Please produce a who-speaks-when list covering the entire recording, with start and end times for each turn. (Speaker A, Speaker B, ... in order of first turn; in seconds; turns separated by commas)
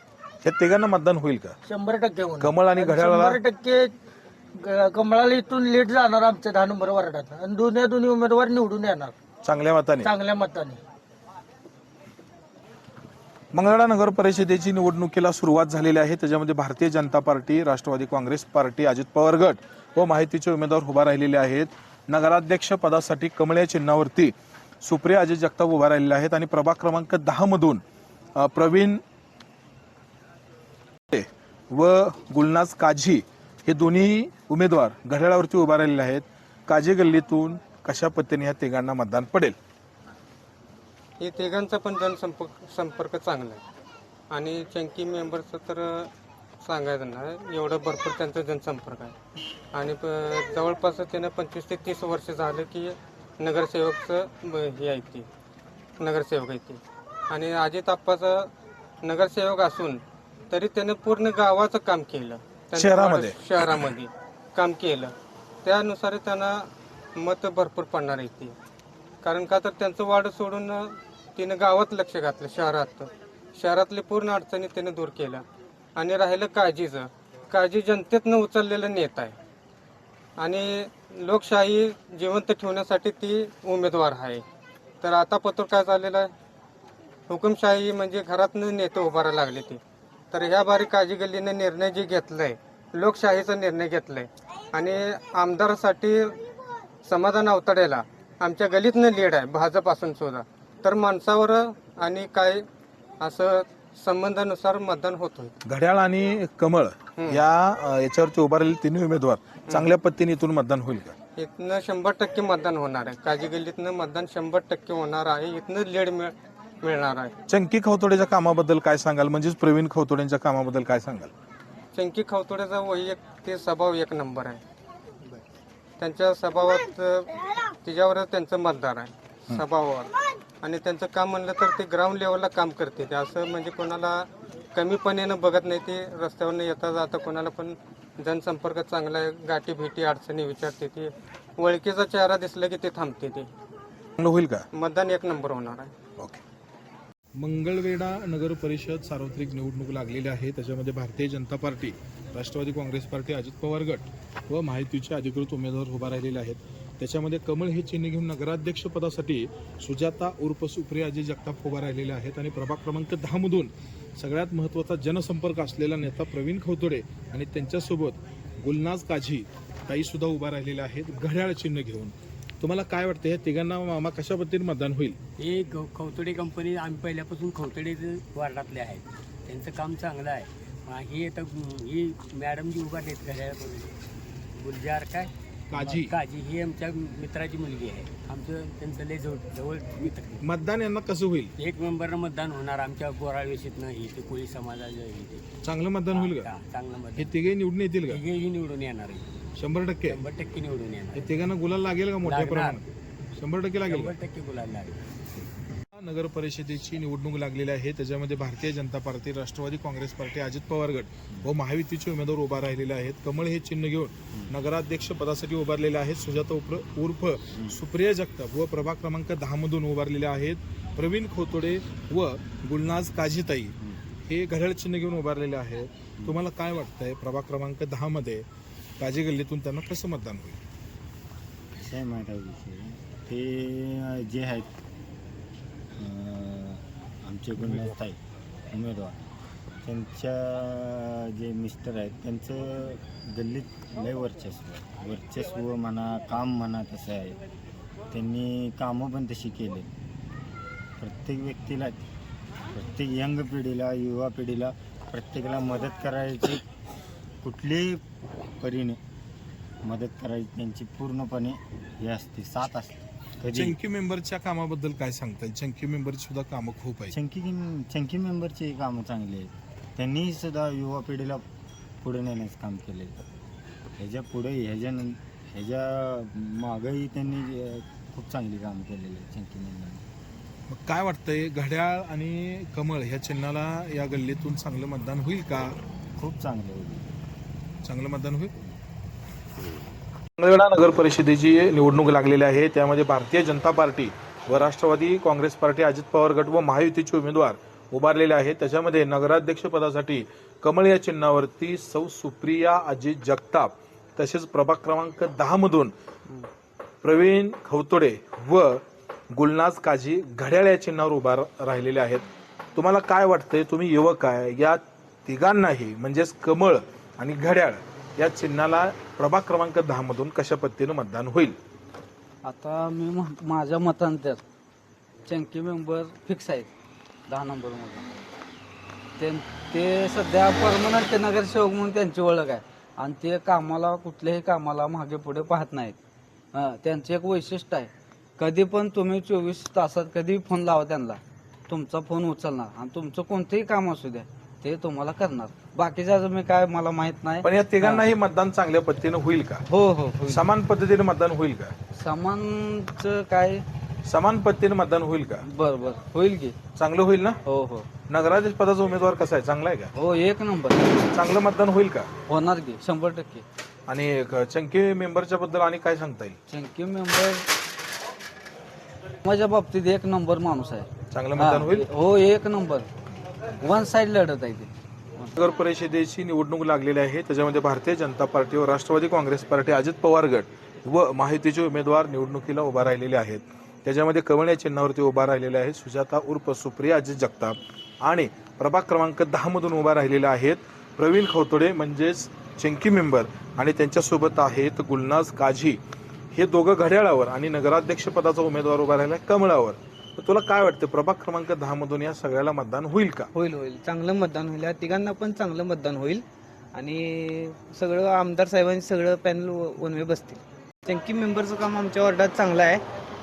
Speaker A: 0.4-1.5, Speaker B: 1.6-3.9, Speaker A: 2.4-3.4, Speaker B: 4.5-9.1, Speaker A: 9.4-10.1, Speaker B: 10.0-10.8, Speaker A: 13.5-27.8, Speaker A: 28.4-29.0, Speaker A: 31.1-39.5, Speaker C: 41.2-43.6, Speaker C: 44.3-46.1, Speaker C: 46.6-49.1, Speaker C: 49.7-55.3, Speaker C: 56.0-56.8, Speaker C: 57.3-58.5, Speaker C: 59.0-60.0, Speaker C: 60.5-65.1, Speaker A: 62.7-63.4, Speaker C: 65.6-66.6, Speaker C: 67.2-68.5, Speaker C: 69.2-75.4, Speaker C: 76.0-79.3, Speaker C: 80.4-84.4, Speaker C: 85.0-86.3, Speaker C: 87.3-89.8, Speaker C: 90.3-96.4, Speaker C: 97.0-102.6, Speaker C: 103.2-105.5, Speaker A: 105.6-111.2, Speaker C: 111.3-117.3, Speaker A: 117.5-121.3, Speaker C: 121.9-124.6, Speaker C: 126.0-143.5, Speaker A: 144.2-144.7, Speaker C: 144.7-145.9, Speaker A: 147.4-175.2, Speaker D: 175.4-184.0, Speaker D: 184.6-190.5, Speaker A: 185.7-186.2, Speaker A: 190.4-191.5, Speaker D: 191.6-195.4, Speaker A: 195.6-196.5, Speaker D: 196.1-197.4, Speaker A: 197.1-198.2, Speaker D: 198.0-199.3, Speaker A: 199.6-200.2, Speaker D: 200.0-201.4, Speaker A: 201.1-202.8, Speaker D: 202.2-202.8, Speaker A: 203.4-204.2, Speaker D: 203.8-205.0, Speaker A: 205.9-223.8, Speaker A: 224.3-228.4, Speaker A: 229.0-230.6, Speaker E: 231.8-234.7, Speaker E: 236.0-238.2, Speaker E: 238.7-239.2, Speaker E: 239.8-247.4, Speaker E: 248.1-249.9, Speaker E: 251.0-252.1, Speaker E: 252.7-256.6, Speaker E: 257.4-258.0, Speaker E: 258.6-259.0, Speaker E: 259.8-263.8, Speaker A: 263.5-267.1, Speaker E: 267.1-271.4, Speaker E: 272.0-273.1, Speaker E: 274.0-280.0, Speaker A: 280.7-285.8, Speaker E: 286.2-287.1, Speaker A: 287.8-288.5, Speaker A: 290.4-305.9, Speaker A: 307.0-312.2, Speaker A: 312.7-321.6, Speaker F: 322.4-324.4, Speaker F: 325.2-326.7, Speaker F: 327.3-328.2, Speaker F: 329.2-336.0, Speaker F: 336.5-348.1, Speaker A: 347.4-349.6, Speaker F: 349.7-350.5, Speaker A: 350.3-351.7, Speaker F: 351.9-353.6, Speaker A: 354.1-355.4, Speaker F: 355.4-356.6, Speaker A: 356.8-357.4, Speaker F: 357.4-357.9, Speaker A: 358.1-359.9, Speaker F: 359.9-361.1, Speaker A: 361.0-362.1, Speaker F: 362.3-363.4, Speaker A: 363.9-366.4, Speaker F: 366.5-367.4, Speaker F: 369.2-372.9, Speaker A: 371.1-371.9, Speaker F: 373.6-375.3, Speaker A: 375.4-395.8, Speaker A: 396.3-403.3, Speaker G: 403.3-412.8